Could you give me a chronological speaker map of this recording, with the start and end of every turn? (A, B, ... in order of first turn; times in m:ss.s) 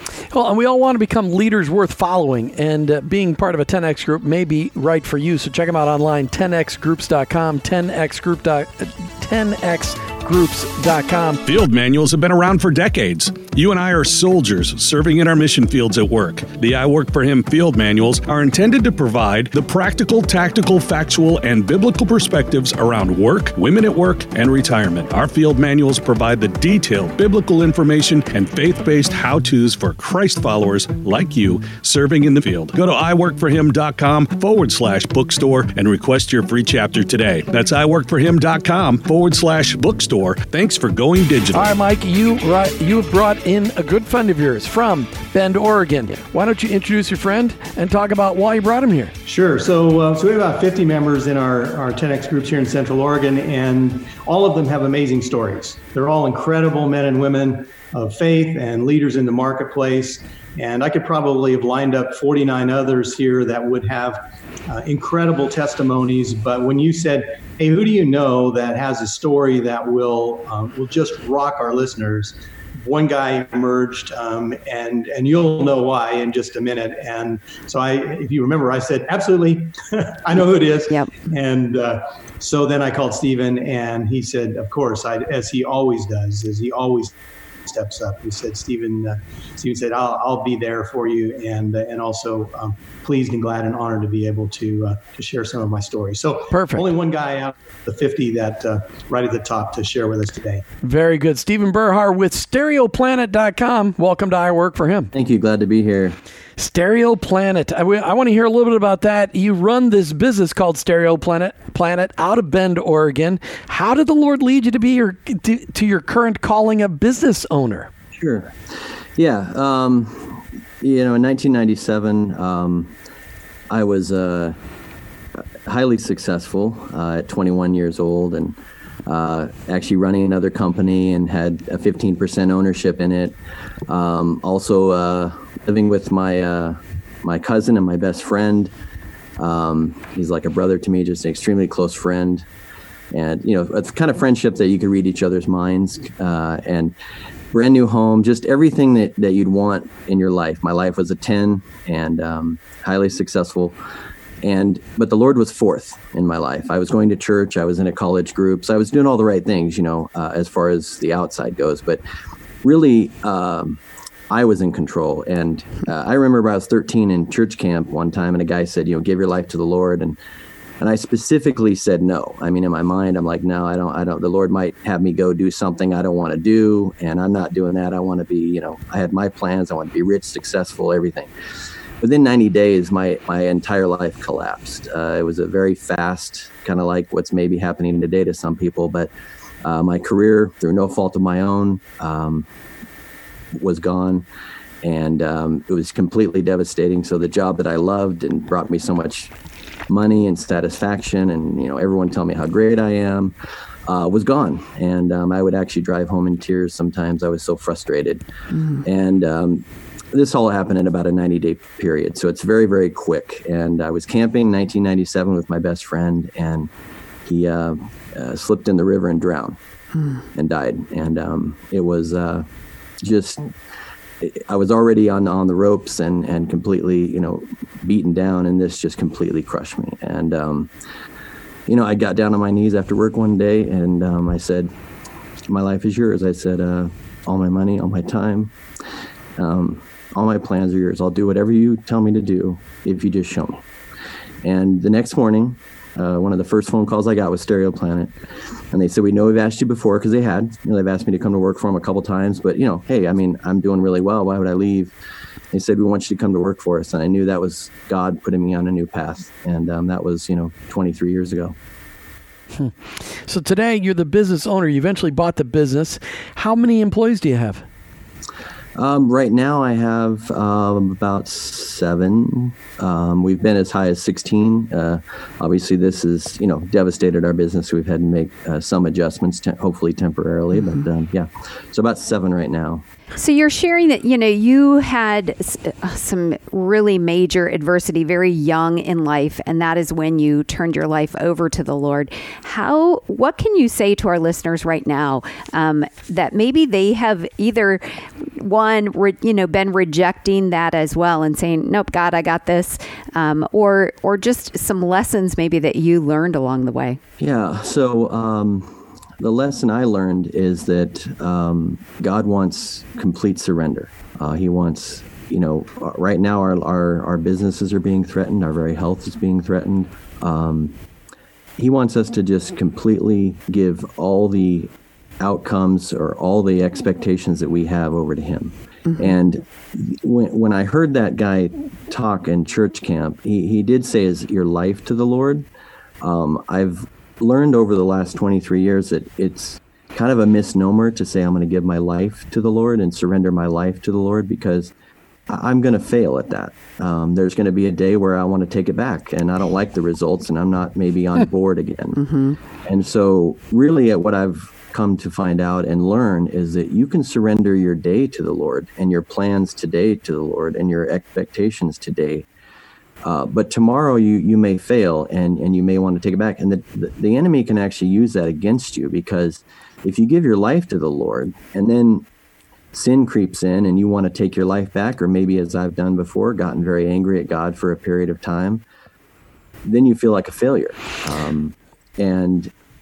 0:00.3-0:11.4 A
0:11.4-0:41.7 B
0:41.5-0:49.1 A
0:49.2-1:27.1 C
1:27.7-1:40.6 C
1:36.5-1:36.9 A
1:40.8-1:45.1 A
1:45.1-1:46.2 D
1:46.6-1:57.9 A
1:58.1-1:58.6 D
1:59.2-2:02.9 D
2:03.7-2:04.6 D
2:05.6-2:18.7 D
2:19.4-2:22.5 D
2:23.1-2:27.0 D
2:27.5-2:33.8 D
2:34.4-2:42.0 D
2:42.6-2:50.2 D
2:50.8-3:01.3 D
3:02.0-3:09.1 D
3:09.6-3:12.5 D
3:13.5-3:14.3 D
3:14.8-3:19.3 D
3:19.9-3:23.3 D
3:23.9-3:28.2 D
3:28.5-3:28.8 E
3:28.8-3:36.7 D
3:37.2-3:39.6 D
3:40.3-3:42.5 D
3:43.0-3:43.5 D
3:44.2-3:50.7 D
3:51.7-3:54.7 D
3:55.5-3:58.5 D
3:59.4-4:03.6 D
4:04.4-4:08.1 D
4:08.7-4:14.9 D
4:15.5-4:21.6 D
4:22.6-4:27.6 A
4:28.8-4:42.8 D
4:43.2-5:07.0 E
5:07.2-5:20.7 D
5:21.6-5:35.4 D
5:36.0-5:44.7 D
5:45.3-5:52.1 D
5:52.0-5:52.4 E
5:52.6-6:02.3 D
6:03.0-6:12.1 D
6:12.7-6:18.6 D
6:19.6-6:22.5 D